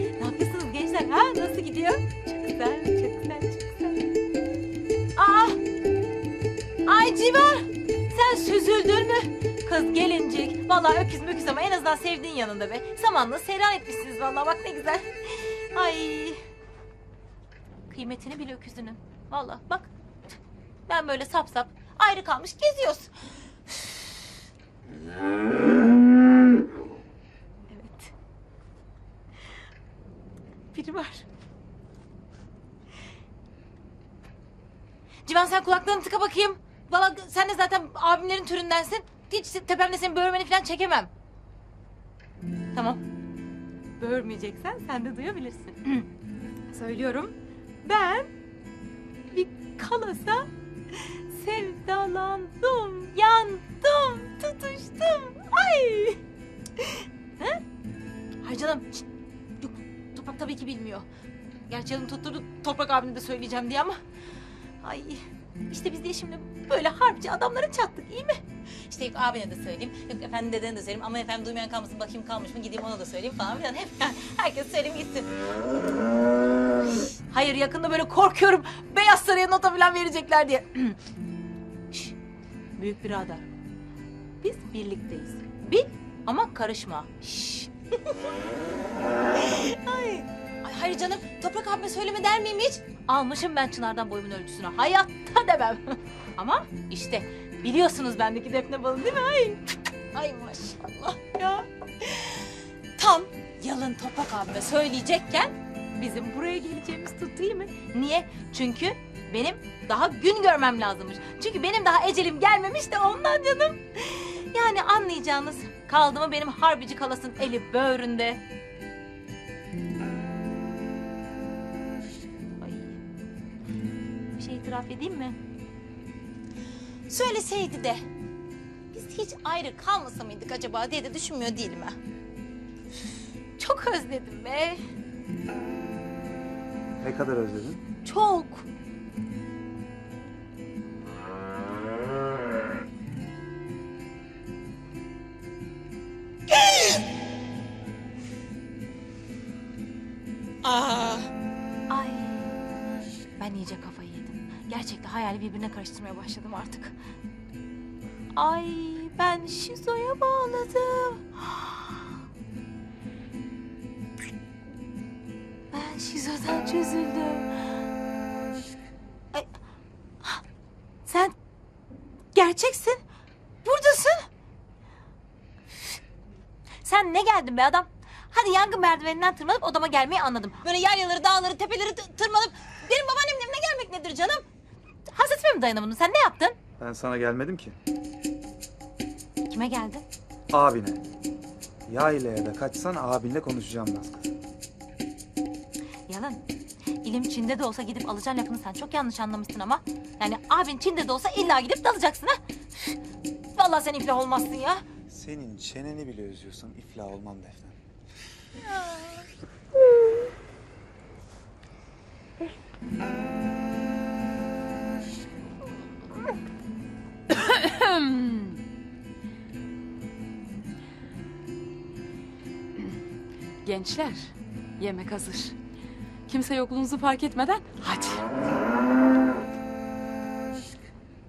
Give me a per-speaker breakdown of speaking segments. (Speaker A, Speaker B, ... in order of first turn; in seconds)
Speaker A: 0.2-4.1, 5.2-5.6, 6.8-16.4, 17.9-19.9, 20.9-23.1, 23.7-24.3, 27.7-28.1, 30.7-31.2, 35.2-41.1, 42.7-43.0, 44.0-46.1, 46.7-48.3, 49.3-56.2, 56.8-57.6, 58.4-59.1, 59.6-61.1, 61.7-64.0, 64.8-75.3, 77.0-81.0, 82.8-83.5, 84.4-88.3, 89.4-118.4, 122.6-123.0, 124.4-125.4, 127.1-128.0, 128.9-132.0, 133.6-134.8, 138.1-138.7, 146.6-146.9, 150.6-151.3, 151.9-152.6, 153.4-157.0, 158.3-162.1, 165.7-167.8, 171.1-171.3, 172.3-173.0, 173.6-174.3, 176.8-184.4, 185.1-186.6, 189.5-190.0, 196.1-196.4, 197.0-203.0, 203.6-204.8, 208.8-209.1
Speaker B: 137.0-137.8, 186.8-187.8, 190.5-191.0, 191.9-194.3, 205.1-207.8
Speaker C: 217.4-218.6, 223.6-225.6, 226.3-228.3